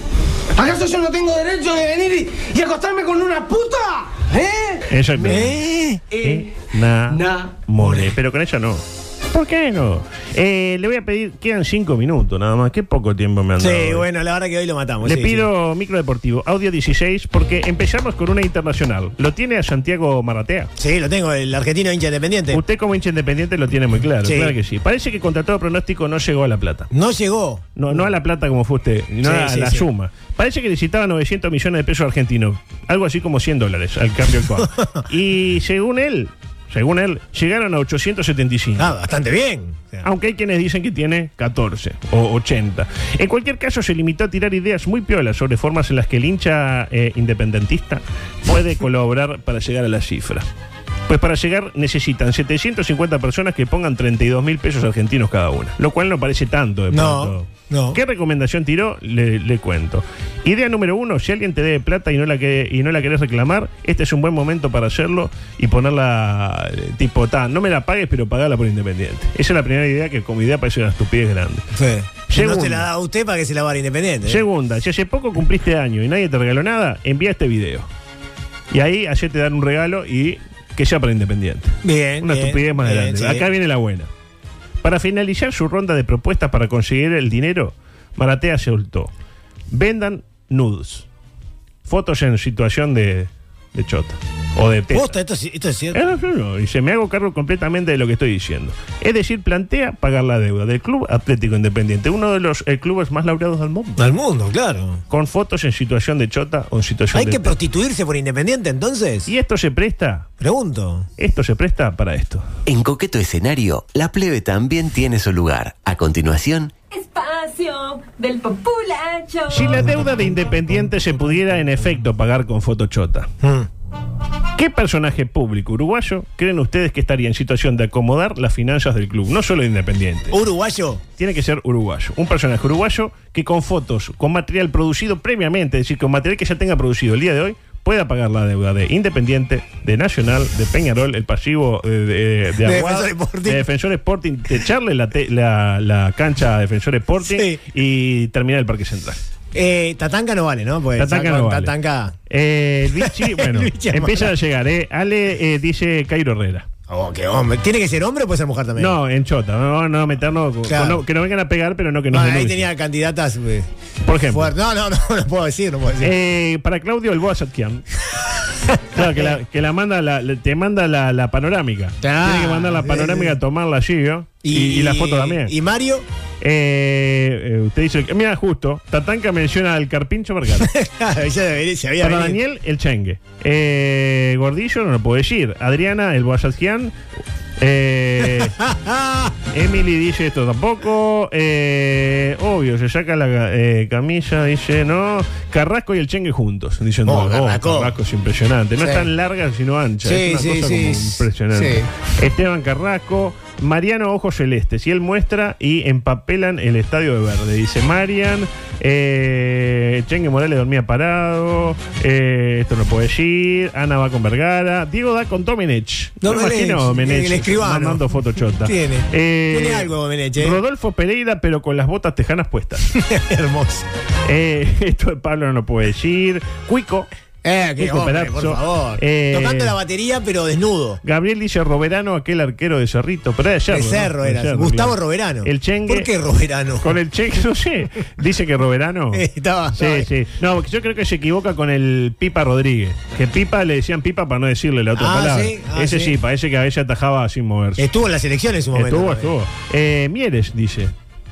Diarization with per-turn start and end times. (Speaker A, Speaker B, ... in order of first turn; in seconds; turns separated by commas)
Speaker A: 0.6-4.7, Speaker B: 4.9-5.6, Speaker C: 5.2-6.2, Speaker B: 6.2-14.1, Speaker C: 7.4-8.1, Speaker C: 13.6-15.4, Speaker B: 15.0-20.7, Speaker C: 20.8-22.6, Speaker B: 22.5-26.9, Speaker C: 24.2-24.5, Speaker C: 26.9-28.0, Speaker B: 27.8-38.9, Speaker C: 29.2-29.9, Speaker C: 38.8-40.0, Speaker B: 40.0-50.5, Speaker B: 51.1-71.7, Speaker C: 56.9-58.0, Speaker C: 71.7-74.4, Speaker B: 72.3-72.9, Speaker B: 74.2-77.9, Speaker B: 78.7-84.1, Speaker C: 81.8-83.5, Speaker B: 84.8-89.1, Speaker B: 89.7-91.1, Speaker B: 91.8-95.2, Speaker C: 94.9-96.0, Speaker B: 95.9-104.0, Speaker C: 104.0-105.0, Speaker B: 105.1-107.5, Speaker C: 107.1-109.3, Speaker B: 109.3-110.2, Speaker C: 110.4-111.0, Speaker B: 111.2-112.5, Speaker D: 112.7-116.7, Speaker E: 116.9-119.7, Speaker B: 119.5-123.3, Speaker C: 123.4-123.7, Speaker B: 124.5-130.4, Speaker C: 130.3-131.0, Speaker B: 131.2-149.2, Speaker C: 142.6-143.6, Speaker C: 147.2-147.6, Speaker C: 149.5-152.1, Speaker B: 150.9-151.8, Speaker B: 152.3-156.7, Speaker C: 153.0-154.3, Speaker C: 156.9-159.0, Speaker B: 158.8-162.7, Speaker C: 160.7-161.0, Speaker C: 162.1-163.7, Speaker B: 164.0-164.5, Speaker C: 164.2-166.1, Speaker B: 166.0-167.8, Speaker C: 168.7-169.4, Speaker B: 168.9-175.5, Speaker C: 172.0-173.3, Speaker C: 174.4-176.0, Speaker B: 176.4-180.7, Speaker C: 180.6-182.4, Speaker B: 182.0-186.9, Speaker B: 187.6-188.5, Speaker C: 188.3-189.2, Speaker B: 189.5-222.9, Speaker C: 197.1-197.9, Speaker C: 198.8-199.1, Speaker C: 200.0-201.8, Speaker C: 216.2-218.0, Speaker C: 218.6-220.6, Speaker C: 223.0-223.8, Speaker B: 224.2-227.1, Speaker C: 227.4-231.0, Speaker B: 227.8-229.8, Speaker B: 231.0-236.1, Speaker C: 233.7-236.9, Speaker B: 236.8-247.9, Speaker C: 239.1-240.1, Speaker C: 244.9-246.2, Speaker C: 247.8-249.3, Speaker B: 248.7-250.9